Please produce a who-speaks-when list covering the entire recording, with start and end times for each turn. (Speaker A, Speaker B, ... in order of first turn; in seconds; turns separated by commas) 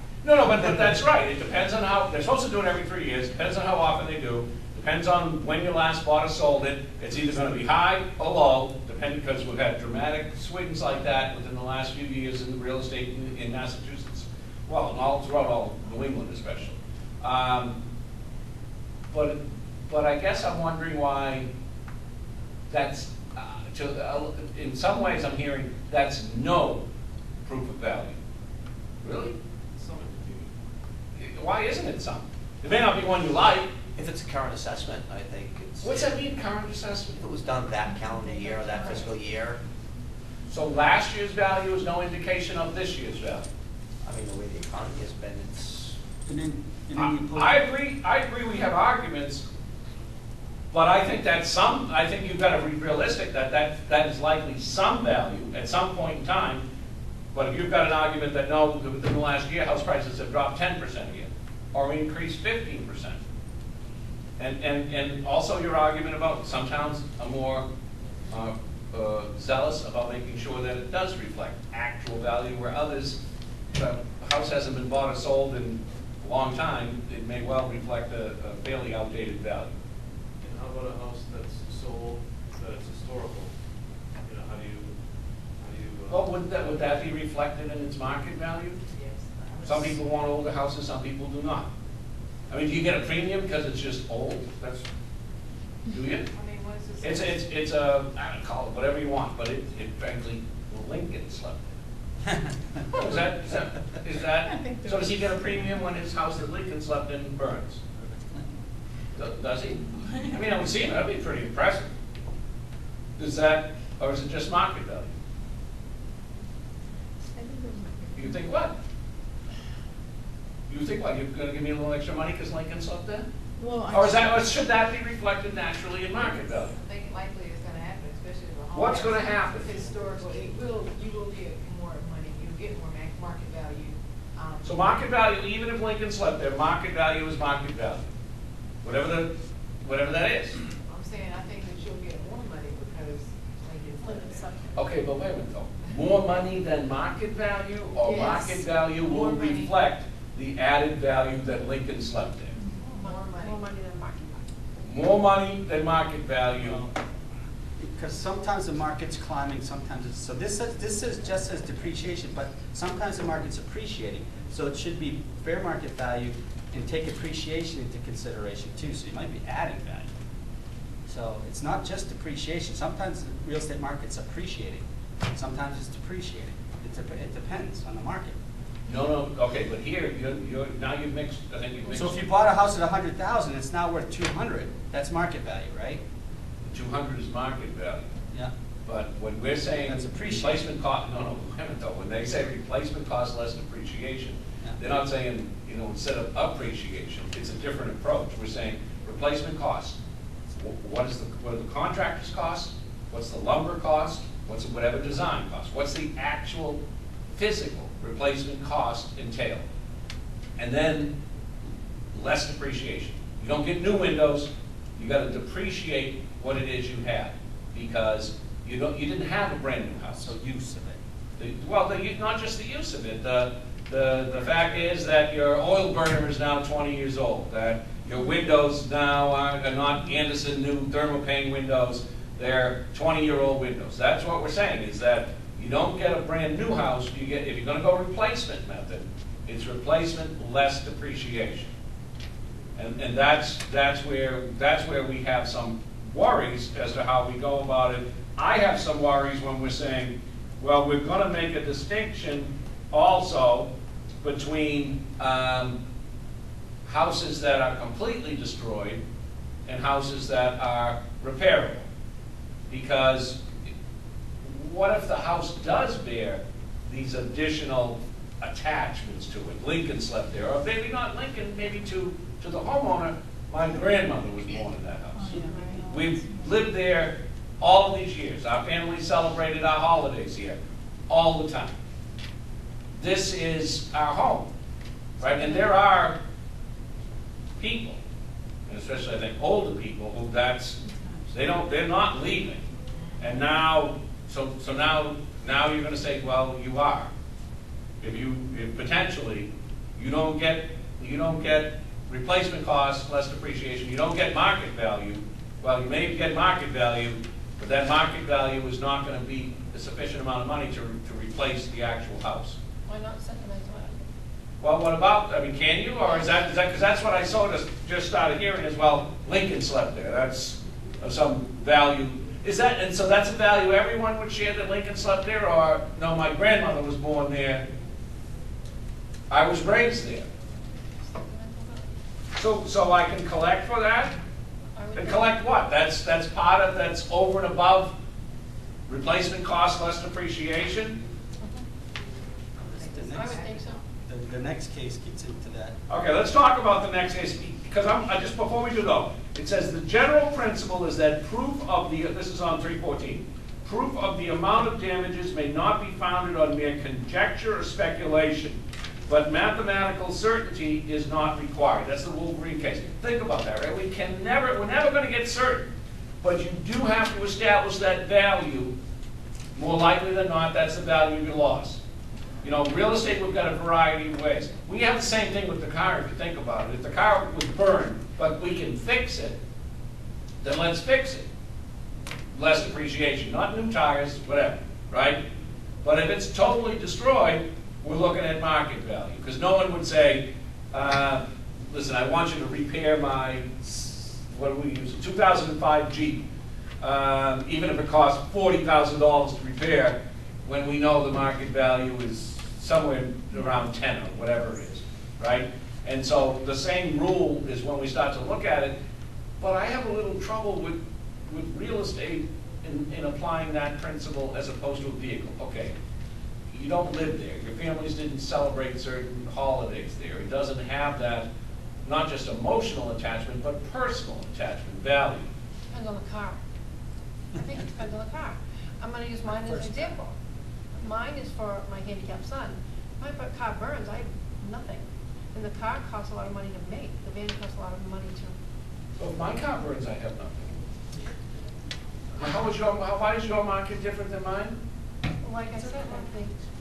Speaker A: 0.2-17.8, Speaker A: 19.1-21.5, Speaker A: 22.7-26.8, Speaker A: 27.4-28.2, Speaker A: 29.0-29.4, Speaker B: 29.8-30.5, Speaker A: 31.2-33.7, Speaker C: 34.0-36.2, Speaker A: 35.8-37.2, Speaker C: 37.2-39.6, Speaker D: 37.9-39.2, Speaker A: 40.5-43.5, Speaker C: 44.0-46.0, Speaker E: 46.3-47.5, Speaker A: 47.0-49.5, Speaker A: 50.7-56.6, Speaker A: 57.3-63.2, Speaker A: 64.4-67.7, Speaker A: 68.3-73.2, Speaker A: 73.7-79.7, Speaker B: 80.4-83.5, Speaker B: 84.2-85.0, Speaker B: 85.6-86.9, Speaker A: 86.1-88.8, Speaker F: 88.9-90.0, Speaker A: 89.7-91.7, Speaker A: 92.5-94.9, Speaker A: 95.9-96.3, Speaker F: 96.3-97.4, Speaker A: 97.0-101.7, Speaker A: 102.9-107.8, Speaker D: 104.4-105.2, Speaker E: 108.0-108.6, Speaker A: 109.2-111.9, Speaker A: 113.2-115.1, Speaker D: 117.3-118.4, Speaker A: 118.2-118.8, Speaker A: 120.7-123.3, Speaker D: 123.6-124.5, Speaker A: 123.9-126.8, Speaker F: 126.5-134.7, Speaker A: 128.7-129.8, Speaker A: 134.6-138.1, Speaker A: 138.8-140.6, Speaker F: 140.9-144.6, Speaker G: 144.0-144.8, Speaker A: 144.8-152.6, Speaker F: 148.1-149.8, Speaker F: 152.8-153.6, Speaker G: 153.0-154.4, Speaker A: 154.8-156.8, Speaker E: 156.6-156.9, Speaker E: 157.8-170.1, Speaker E: 171.1-178.4, Speaker A: 178.9-182.2, Speaker E: 181.9-186.0, Speaker A: 186.7-188.1, Speaker A: 188.9-200.0, Speaker E: 189.8-190.7, Speaker A: 200.5-206.8, Speaker A: 207.3-209.7, Speaker A: 210.6-211.2, Speaker A: 212.1-220.3, Speaker E: 220.2-221.0, Speaker A: 221.4-241.7, Speaker A: 242.8-255.8, Speaker A: 256.9-259.0, Speaker A: 259.7-261.9, Speaker A: 262.7-263.5, Speaker A: 264.4-280.6, Speaker D: 275.1-276.6, Speaker G: 275.4-275.8, Speaker A: 281.1-281.7, Speaker A: 283.0-284.5, Speaker A: 285.2-286.2, Speaker A: 287.6-288.0, Speaker A: 288.7-290.8, Speaker D: 290.9-291.2, Speaker A: 291.3-292.7, Speaker A: 293.2-297.1, Speaker A: 298.0-312.6, Speaker G: 312.9-314.1, Speaker A: 314.6-327.7, Speaker G: 316.1-316.4, Speaker A: 329.3-330.3, Speaker G: 331.1-331.9, Speaker A: 332.4-334.2, Speaker G: 334.8-335.4, Speaker A: 334.9-337.9, Speaker A: 338.9-341.0, Speaker G: 341.4-341.7, Speaker E: 342.6-343.5, Speaker F: 342.7-343.8, Speaker G: 343.1-343.8, Speaker E: 344.1-345.8, Speaker A: 345.9-365.7, Speaker A: 366.2-368.8, Speaker A: 369.6-371.8, Speaker A: 372.4-379.4, Speaker A: 380.4-381.3, Speaker A: 382.3-385.2, Speaker A: 385.8-396.3, Speaker A: 396.8-408.8, Speaker A: 409.4-415.8, Speaker A: 416.5-421.3, Speaker A: 421.9-425.3, Speaker G: 425.7-426.4, Speaker G: 427.3-430.1, Speaker E: 429.2-429.9, Speaker G: 430.8-438.4, Speaker A: 439.0-440.6, Speaker A: 442.1-444.6, Speaker G: 445.2-446.4